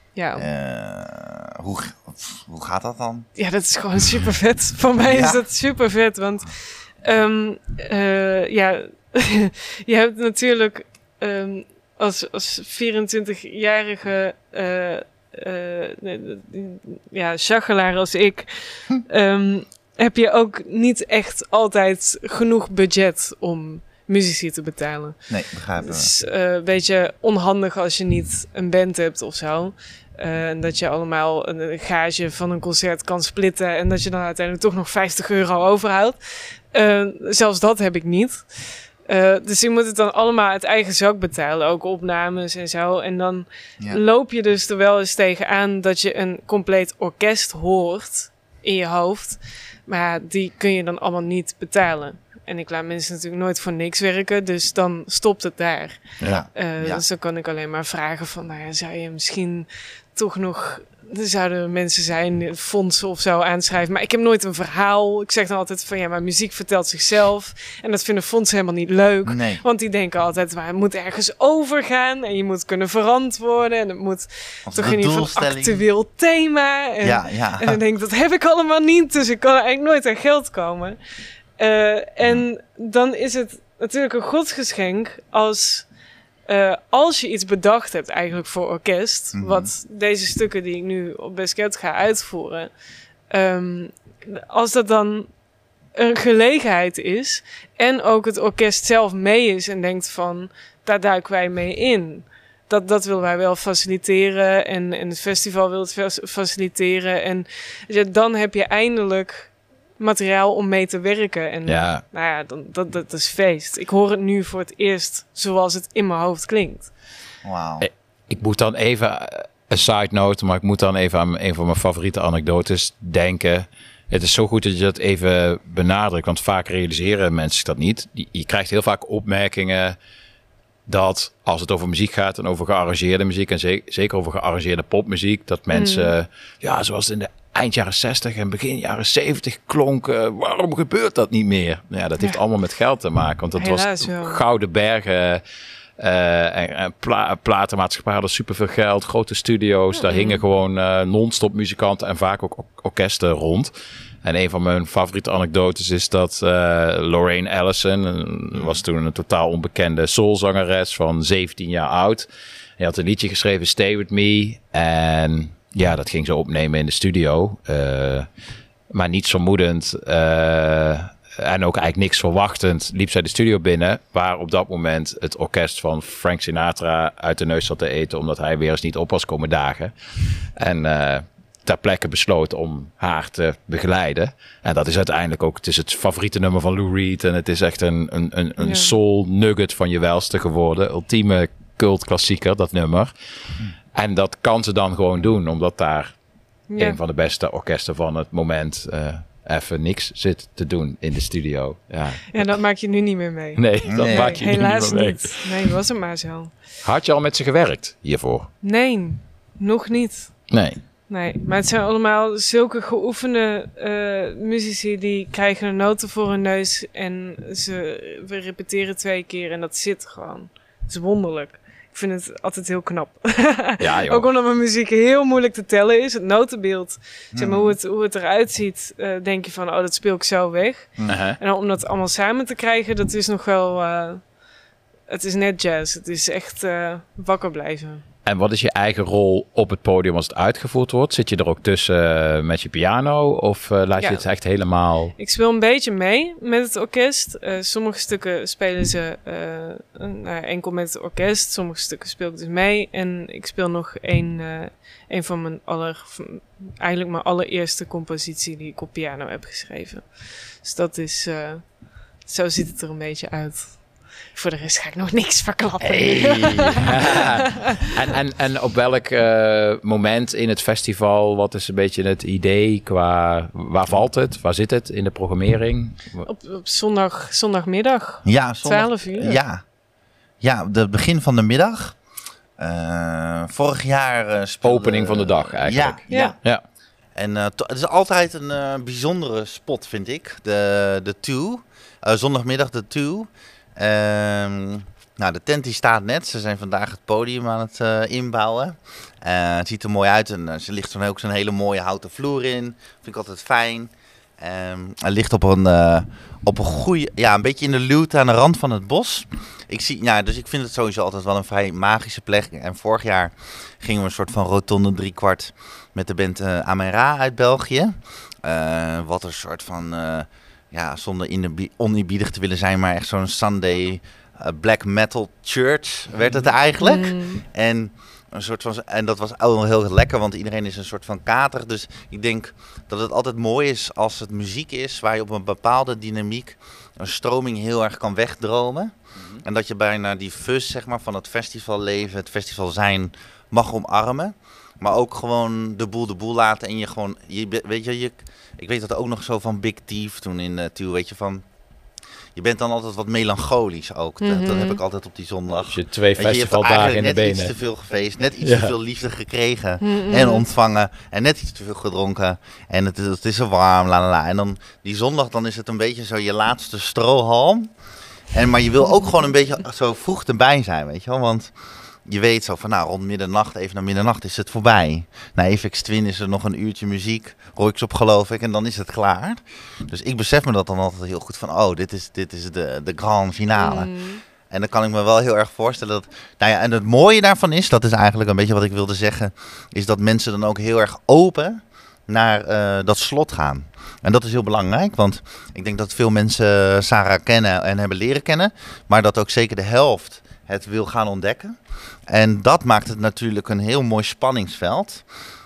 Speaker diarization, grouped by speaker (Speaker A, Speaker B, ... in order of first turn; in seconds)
Speaker A: 0.1-0.4, 3.4-81.0, 81.6-85.9, 86.5-92.7, 93.3-95.3, 95.9-116.9, 135.7-136.1, 143.6-144.4, 149.9-150.4, 188.6-188.9, 196.7-197.0, 202.3-206.5, 208.6-210.5, 211.1-234.3, 235.1-238.0, 244.0-244.2, 245.2-267.2, 276.2-279.4, 286.1-286.4, 326.8-327.4, 354.2-354.8, 359.8-360.4, 383.6-384.2
Speaker B: 0.3-3.3, 5.0-5.4, 25.3-26.1, 56.2-57.0, 69.3-69.6, 74.7-75.8, 77.0-77.8, 89.3-89.7, 117.4-117.9, 158.5-158.8, 203.9-204.4, 227.3-227.8, 278.2-279.6, 280.4-282.0, 282.6-286.4, 287.1-351.5, 352.4-367.7, 368.3-371.5, 372.1-405.1
Speaker C: 111.7-112.0, 117.8-130.0, 130.9-145.4, 146.0-153.7, 154.2-162.3, 162.8-168.3, 168.9-193.1, 193.9-196.2, 196.7-202.6, 203.6-205.5, 206.8-208.5, 210.5-210.8, 223.8-224.3, 231.1-231.4, 238.2-245.2, 265.8-276.3, 284.6-286.6, 355.7-357.5, 358.4-358.7